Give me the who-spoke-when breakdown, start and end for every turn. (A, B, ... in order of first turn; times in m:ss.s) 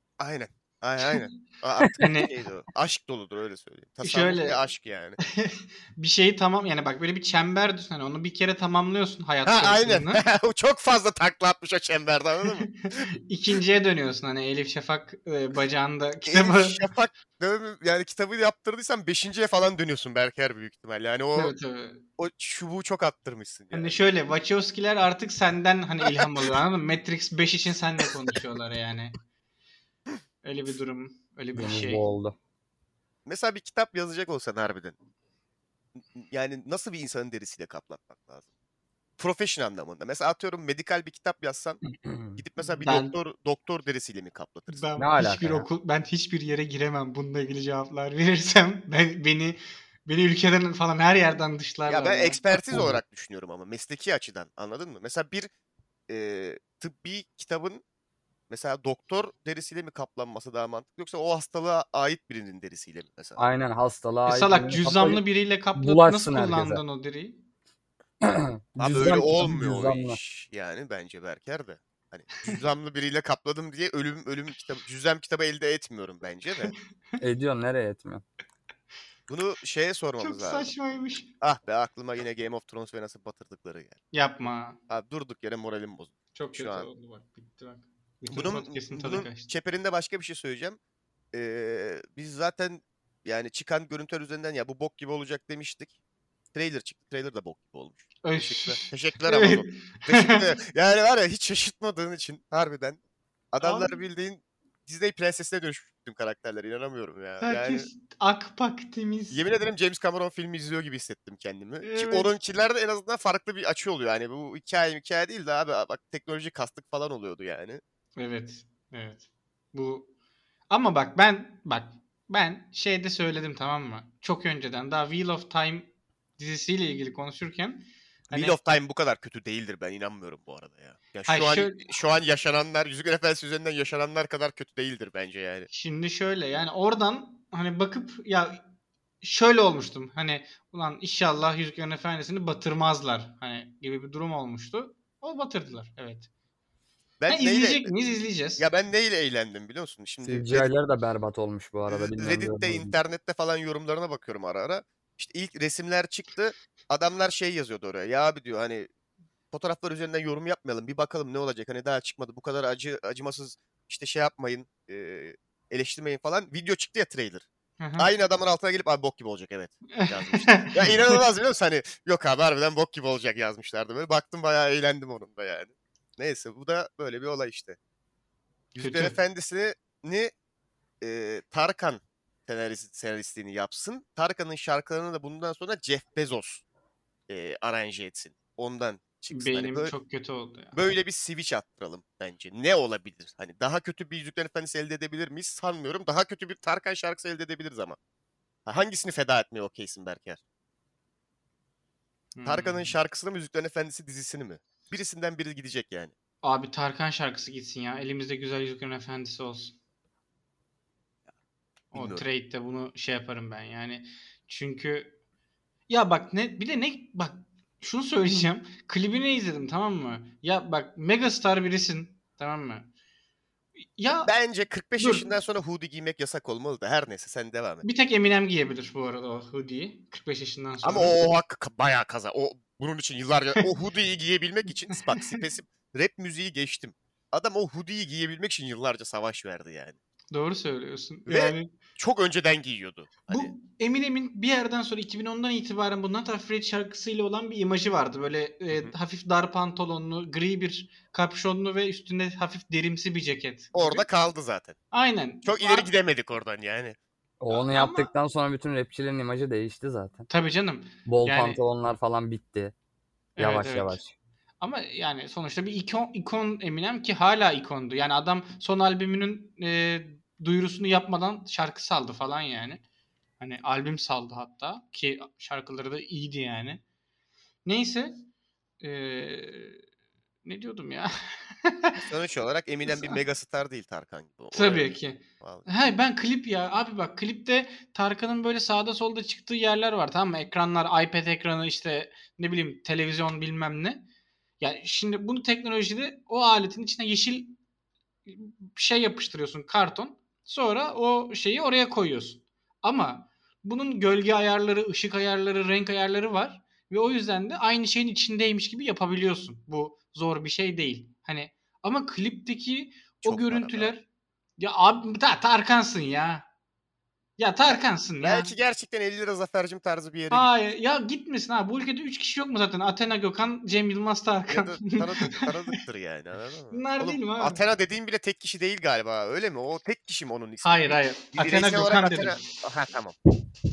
0:00.2-0:05.2 A
0:02.0-0:02.3 B
0:04.0-0:04.6 B
0:05.2-0:10.2 B
0:09.4-0:13.1 A
0:12.7-0:16.8 B
0:16.2-0:21.5 A
0:21.3-0:22.0 B
0:22.2-0:24.0 A
0:23.7-0:29.1 B
0:30.4-0:32.0 B
0:31.5-0:32.3 C
0:33.2-0:34.9 A
0:36.0-0:38.4 A
0:39.2-0:41.8 A
0:42.0-0:42.4 C
0:42.4-0:44.8 A
0:42.8-0:43.2 B
0:44.7-0:52.4 B
0:45.0-0:45.7 C
0:51.9-0:55.5 A
0:52.7-0:53.0 C
0:56.1-0:57.8 A
0:58.5-1:03.4 A
1:03.4-1:05.2 C
1:04.2-1:07.4 B
1:05.8-1:06.8 C
1:08.2-1:10.2 C
1:08.8-1:16.7 A
1:17.2-1:18.2 C
1:19.3-1:20.7 A
1:20.2-1:21.3 B
1:21.4-1:24.0 A
1:24.1-1:24.8 B
1:24.9-1:26.9 A
1:26.3-1:29.5 B
1:28.3-1:30.8 A
1:31.3-1:35.9 A
1:36.5-1:43.0 A
1:38.2-1:40.5 B
1:43.5-1:47.9 A
1:43.6-1:44.0 B
1:47.4-1:49.4 B
1:49.3-1:57.8 A
1:51.8-1:52.3 B
1:58.2-2:00.1 B
2:00.7-2:08.6 B
2:08.3-2:15.7 A
2:11.3-2:11.9 B
2:15.7-2:18.6 B
2:19.2-2:26.3 B
2:27.2-2:27.9 A
2:27.3-2:28.6 B
2:28.6-2:30.7 A
2:30.2-2:33.0 C
2:31.9-2:38.9 A
2:39.5-2:47.4 A
2:47.8-2:48.1 B
2:48.0-2:57.8 A
2:49.9-2:51.2 B
2:58.7-3:00.3 A
2:58.8-2:59.2 B
3:01.0-3:06.6 A
3:07.3-3:09.9 A
3:09.3-3:10.8 B
3:10.7-3:18.0 A
3:18.6-3:20.4 A
3:22.3-3:23.0 B
3:22.4-3:26.1 A
3:26.4-3:29.8 B
3:31.9-3:32.2 A
3:31.9-3:35.1 B
3:35.9-3:42.9 B
3:44.0-3:44.3 B
3:44.2-3:47.8 A
3:45.0-3:45.3 B
3:47.8-3:51.2 B
3:50.8-4:00.0 A
4:00.3-4:01.7 B
4:01.3-4:03.5 A
4:03.3-4:14.0 B
4:13.7-4:14.8 A
4:14.9-4:15.9 B
4:15.4-4:17.0 A
4:17.4-4:20.2 C
4:17.5-4:18.1 B
4:20.3-4:21.6 B
4:21.0-4:22.7 C
4:23.4-4:24.0 B
4:23.4-4:24.1 C
4:24.6-4:32.8 B
4:33.4-4:36.8 B
4:37.6-4:38.2 B
4:38.8-4:39.8 B
4:40.4-4:42.0 B
4:42.0-4:45.6 A
4:42.8-4:43.2 B
4:44.5-4:54.0 B
4:54.6-4:57.6 B
4:58.3-5:14.0 B
5:13.2-5:13.9 A
5:14.6-5:16.4 B
5:17.4-5:18.5 B
5:17.7-5:20.5 A
5:20.3-5:25.5 B
5:24.5-5:33.2 A
5:26.7-5:27.6 B
5:30.6-5:32.4 B